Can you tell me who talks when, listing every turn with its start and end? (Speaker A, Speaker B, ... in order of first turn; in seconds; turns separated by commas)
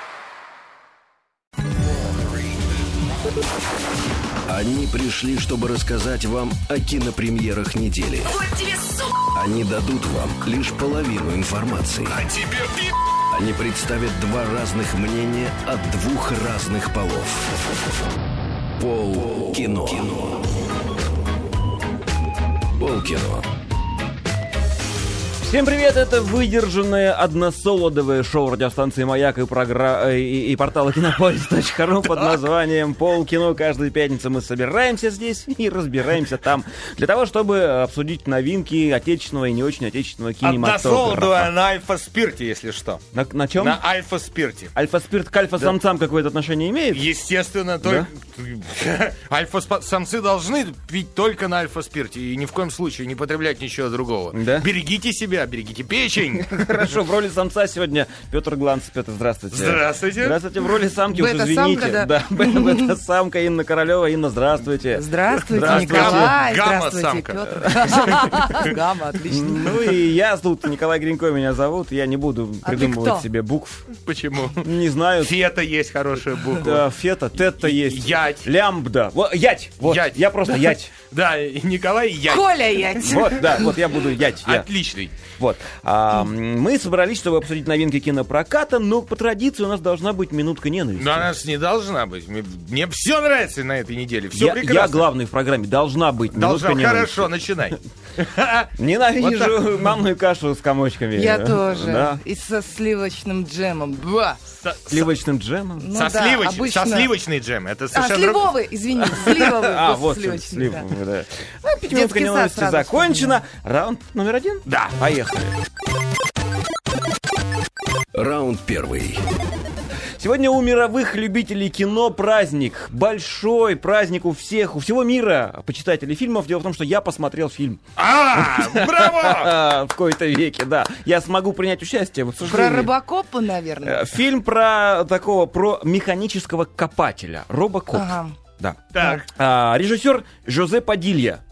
Speaker A: 4.5-8.4, Speaker A: 9.2-12.3, Speaker A: 13.3-17.5, Speaker A: 18.8-20.5, Speaker A: 22.7-23.5, Speaker B: 25.4-41.5, Speaker C: 40.4-43.0, Speaker B: 43.1-43.8, Speaker C: 43.6-44.7, Speaker B: 44.7-47.0, Speaker C: 46.9-56.9, Speaker B: 47.8-48.1, Speaker B: 54.3-54.7, Speaker B: 56.4-66.3, Speaker C: 59.5-60.4, Speaker D: 61.1-62.9, Speaker D: 64.9-69.8, Speaker C: 65.5-68.7, Speaker B: 67.6-68.7, Speaker B: 69.2-73.9, Speaker D: 72.6-73.3, Speaker C: 73.9-74.7, Speaker B: 74.6-75.3, Speaker C: 75.2-76.8, Speaker B: 76.6-80.9, Speaker C: 77.6-78.5, Speaker C: 79.8-83.6, Speaker D: 82.3-83.7, Speaker B: 83.0-84.7, Speaker C: 84.4-85.2, Speaker B: 85.4-91.3, Speaker C: 91.0-95.1, Speaker B: 94.3-97.3, Speaker C: 96.3-99.7, Speaker B: 98.8-102.2, Speaker D: 101.1-104.4, Speaker C: 104.6-105.1, Speaker B: 104.9-105.9, Speaker D: 105.8-107.1, Speaker C: 105.9-109.4, Speaker D: 107.9-110.9, Speaker B: 109.3-115.6, Speaker D: 111.9-113.4, Speaker C: 114.7-115.0, Speaker A: 118.1-119.2, Speaker B: 120.2-132.9, Speaker C: 128.0-129.6, Speaker D: 132.4-134.1, Speaker B: 133.8-141.4, Speaker D: 137.9-138.3, Speaker C: 138.9-139.3